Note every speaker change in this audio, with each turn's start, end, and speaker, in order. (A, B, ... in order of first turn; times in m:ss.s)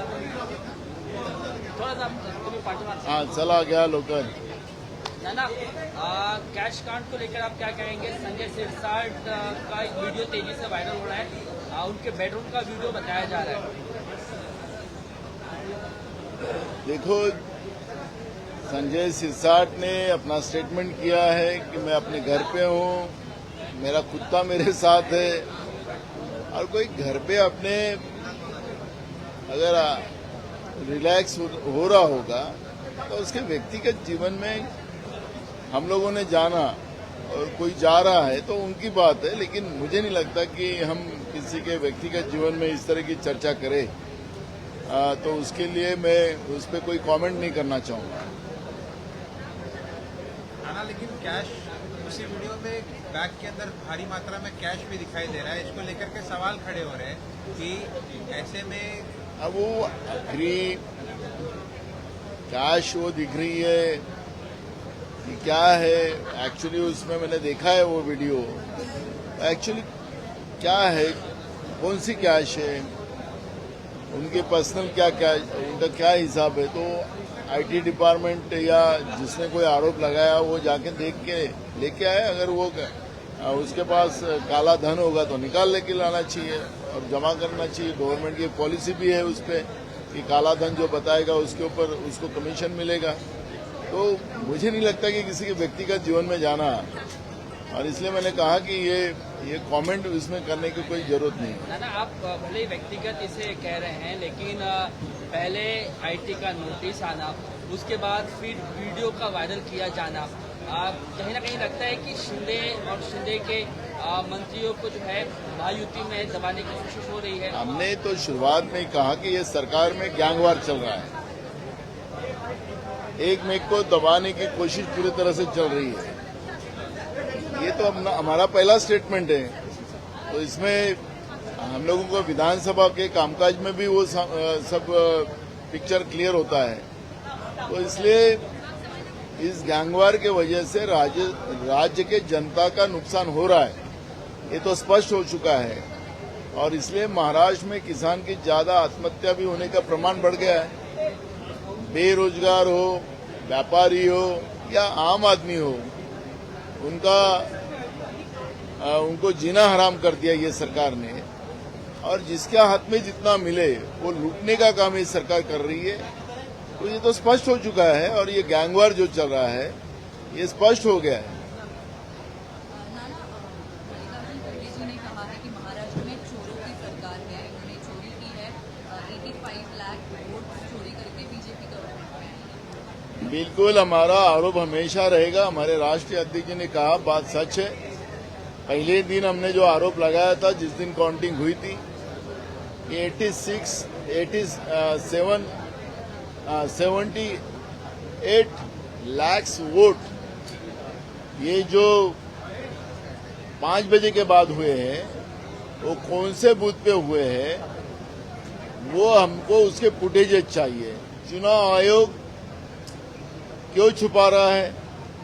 0:01.7-0:03.4 A
0:03.0-0:04.4 B
0:05.2-0:13.7 A
0:16.8-0:17.4 B
0:18.7-0:23.2 B
0:23.8-0:25.5 B
0:26.5-0:28.0 B
0:29.5-0:30.1 B
0:30.8-0:34.7 B
0:35.7-0:43.9 B
0:44.9-0:48.3 B
0:50.6-0:59.1 C
0:59.4-1:00.8 B
1:02.5-1:04.1 B
1:05.2-1:08.6 B
1:09.4-1:09.8 B
1:10.6-1:11.2 B
1:11.8-1:12.9 B
1:14.1-1:33.2 B
1:33.9-1:36.9 B
1:37.7-1:41.6 B
1:41.6-1:57.8 A
1:57.5-2:01.1 B
2:03.2-2:06.1 B
2:07.5-2:09.5 B
2:10.3-2:11.0 B
2:11.6-2:16.9 B
2:17.7-2:18.4 B
2:19.4-2:23.8 B
2:24.5-2:25.8 B
2:26.5-2:30.7 B
2:31.9-2:35.9 B
2:36.8-2:37.5 B
2:38.8-2:41.3 B
2:42.0-2:46.0 B
2:46.8-2:49.8 B
2:50.3-2:51.4 B
2:52.7-3:02.6 D
3:03.2-3:07.7 B
3:08.7-3:11.8 B
3:12.9-3:15.5 B
3:16.5-3:17.4 B
3:18.2-3:20.1 B
3:21.4-3:22.2 B
3:23.6-3:25.2 B
3:25.8-3:27.6 B
3:28.8-3:32.2 B
3:33.7-3:34.8 B